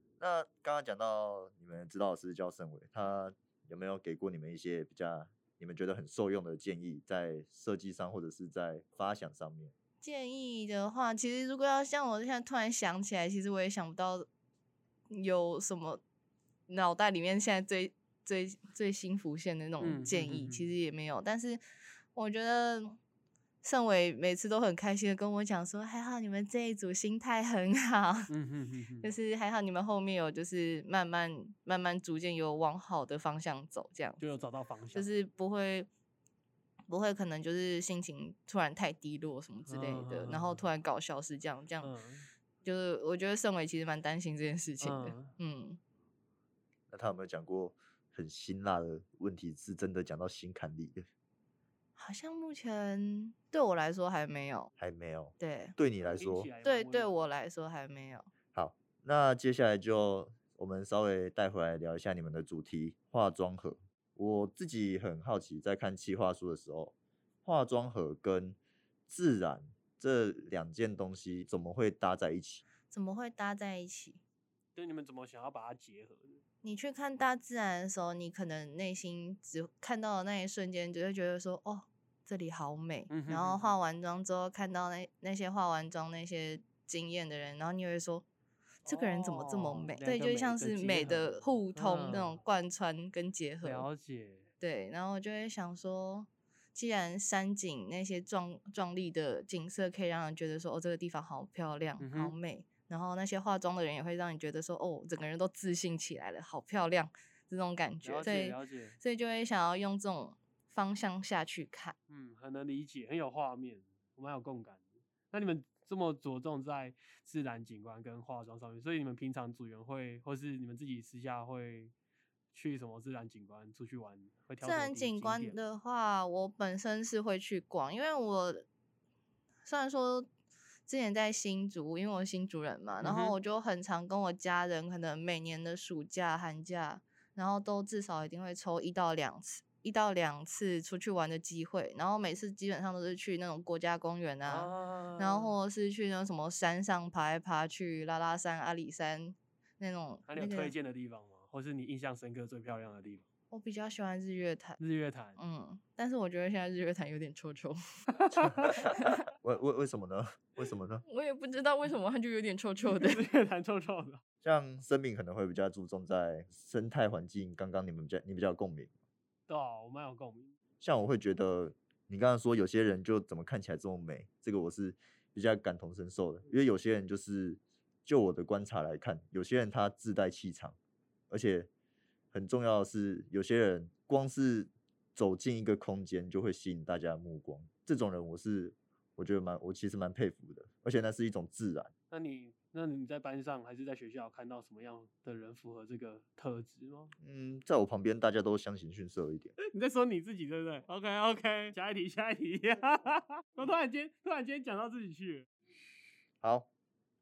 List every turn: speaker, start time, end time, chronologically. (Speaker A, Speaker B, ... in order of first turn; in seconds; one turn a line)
Speaker A: 0.2-9.7
Speaker B: 10.0-14.3
Speaker B: 15.1-16.0
Speaker B: 16.7-21.6
Speaker C: 19.8-20.7
Speaker B: 22.1-23.0
Speaker B: 23.6-28.3
Speaker C: 28.3-29.1
Speaker B: 29.0-34.2
Speaker C: 34.2-35.1
Speaker B: 34.9-35.9
Speaker B: 36.9-41.9
Speaker C: 39.7-40.7
Speaker C: 41.8-42.3
Speaker B: 42.6-45.8
Speaker C: 44.8-45.3
Speaker A: 46.9-51.0
Speaker B: 52.0-54.7
Speaker A: 54.8-56.5
Speaker B: 55.4-55.8
Speaker C: 56.0-57.2
Speaker B: 56.6-58.3
Speaker A: 58.5-66.9
Speaker A: 67.5-68.6
Speaker A: 69.1-72.6
Speaker B: 72.9-74.2
Speaker C: 74.8-76.4
Speaker B: 76.6-88.2
Speaker C: 83.1-83.8
Speaker C: 88.9-92.4
Speaker B: 88.9-93.9
Speaker C: 93.6-94.5
Speaker B: 94.6-112.0
Speaker C: 102.0-102.4
Speaker C: 108.0-109.0
Speaker C: 112.1-121.9
Speaker C: 122.5-125.6
Speaker B: 124.6-128.7
Speaker B: 129.7-130.3
Speaker B: 130.9-150.7
Speaker C: 133.0-133.3
Speaker C: 144.4-145.6
Speaker C: 150.3-153.2
Speaker B: 153.5-154.8
Speaker C: 154.8-155.4
Speaker B: 155.4-157.8
Speaker C: 158.2-158.8
Speaker A: 158.6-161.0
Speaker B: 158.8-159.1
Speaker B: 161.1-163.2
Speaker C: 162.9-164.2
Speaker A: 164.4-168.9
Speaker C: 169.5-170.5
Speaker A: 170.8-180.8
Speaker A: 181.3-181.7
Speaker A: 182.3-191.9
Speaker C: 192.1-197.1
Speaker A: 197.2-199.6
Speaker C: 199.6-205.5
Speaker A: 206.4-206.7